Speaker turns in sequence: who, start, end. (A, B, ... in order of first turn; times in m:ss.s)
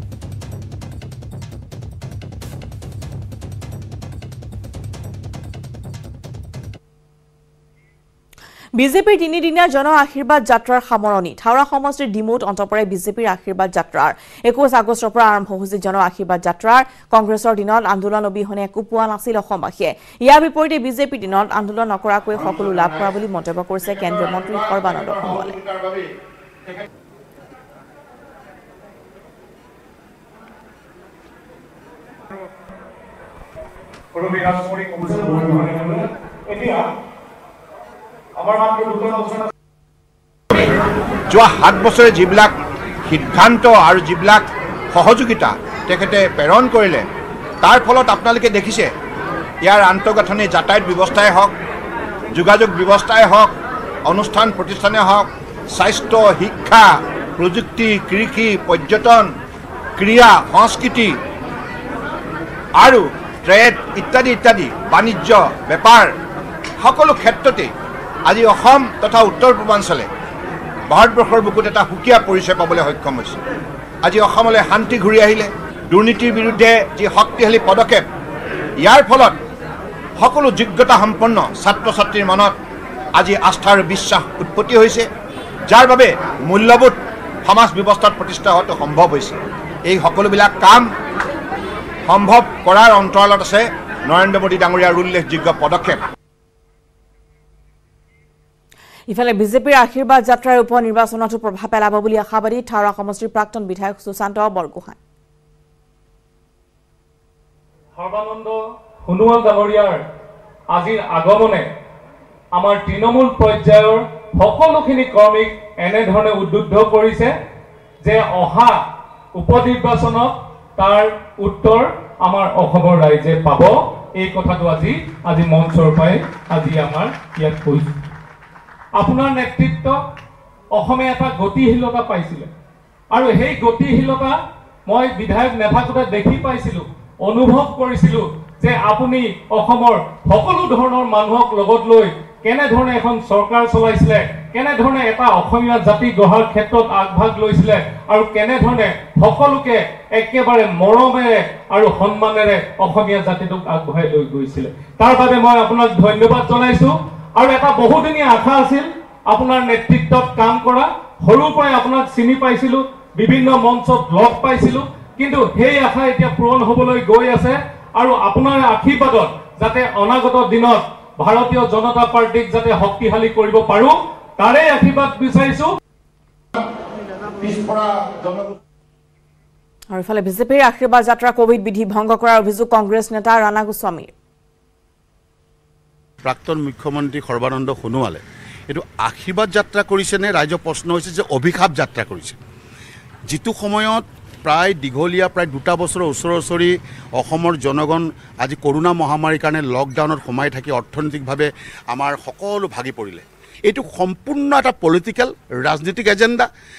0:08.8-0:25.6 A
0:22.5-0:22.9 B
0:24.1-0:26.1 B
0:34.1-0:36.9 C
0:38.4-0:39.5 C
0:41.3-0:42.5 B
0:43.1-0:47.1 B
0:47.6-0:48.9 B
0:49.6-0:51.6 B
0:52.3-0:53.5 B
0:54.0-0:59.3 B
1:00.0-1:01.2 B
1:02.8-1:06.1 B
1:06.8-1:07.7 B
1:08.3-1:10.1 B
1:10.9-1:13.4 B
1:14.0-1:18.1 B
1:18.8-1:19.4 B
1:20.2-1:22.6 B
1:23.2-1:25.1 B
1:25.7-1:30.9 B
1:32.1-1:36.0 B
1:39.1-1:45.0 A
1:48.0-1:50.0 C
1:50.7-1:51.7 C
1:52.5-1:57.4 C
1:58.0-1:58.8 C
1:59.3-2:08.0 C
2:09.0-2:10.0 C
2:10.7-2:12.5 C
2:13.1-2:55.7 C
2:57.4-2:58.6 B
2:59.9-3:04.1 A
3:06.2-3:12.4 D
3:13.3-3:26.5 D